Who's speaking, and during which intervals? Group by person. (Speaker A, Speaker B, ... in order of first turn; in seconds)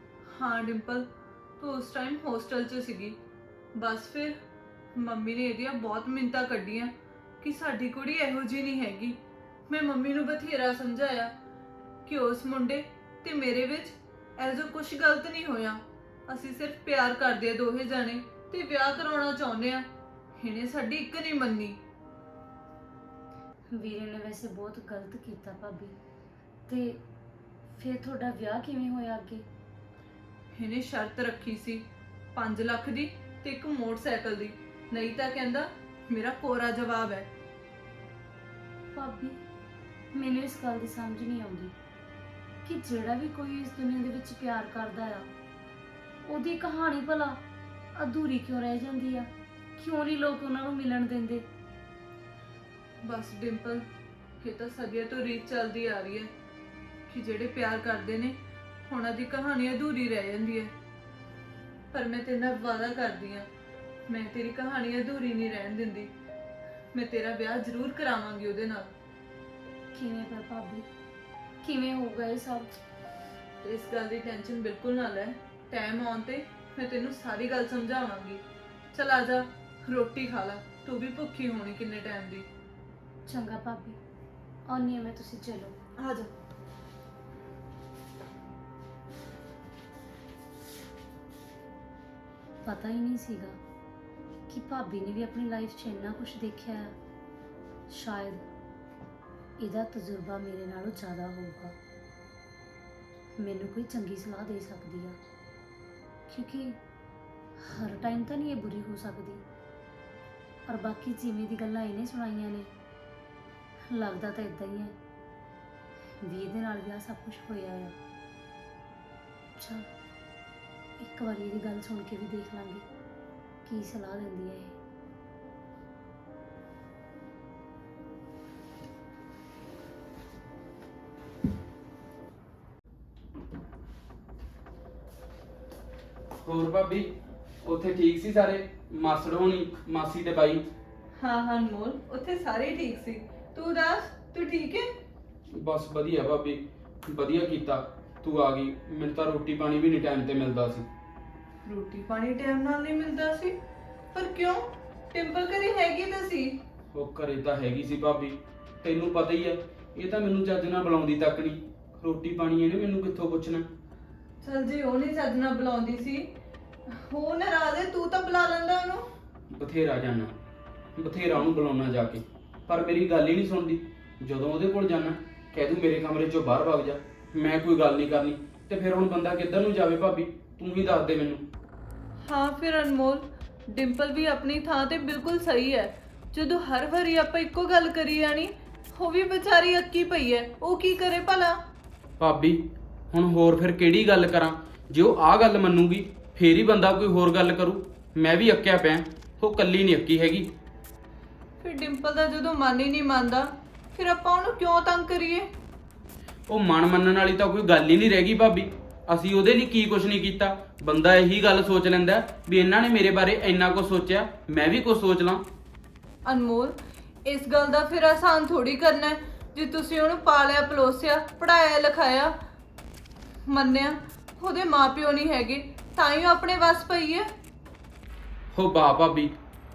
Speaker A: 0.3-1.1, 1.6-3.2, 3.7-4.4, 4.9-11.3, 12.1-19.9, 20.4-21.8, 30.5-37.3, 53.0-53.9, 54.4-56.3, 57.1-60.7, 61.9-63.5, 64.1-66.1, 66.9-68.9, 73.6-82.5, 86.0-86.3, 141.2-144.9, 151.7-153.6, 154.1-156.6, 164.4-166.3, 166.9-169.1, 182.2-191.6, 201.6-205.5, 216.2-222.3, 223.5-227.3
Speaker B: 23.7-26.0, 26.7-27.0, 27.8-29.4, 38.9-39.4, 40.1-41.7, 42.6-45.3, 46.3-47.4, 47.9-51.4, 69.9-70.8, 71.6-72.7, 83.2-84.0, 84.7-85.8, 92.6-93.6, 94.5-96.9, 97.9-98.4, 99.6-101.7, 103.4-105.2, 106.3-106.8, 107.6-109.4, 110.7-112.7, 113.9-115.0, 116.2-118.0, 119.6-119.9, 121.0-122.8, 123.6-124.8
Speaker C: 136.4-140.6, 145.5-150.9, 156.9-163.7, 169.5-170.3, 171.0-181.4, 192.2-200.5, 206.5-215.4, 228.5-229.3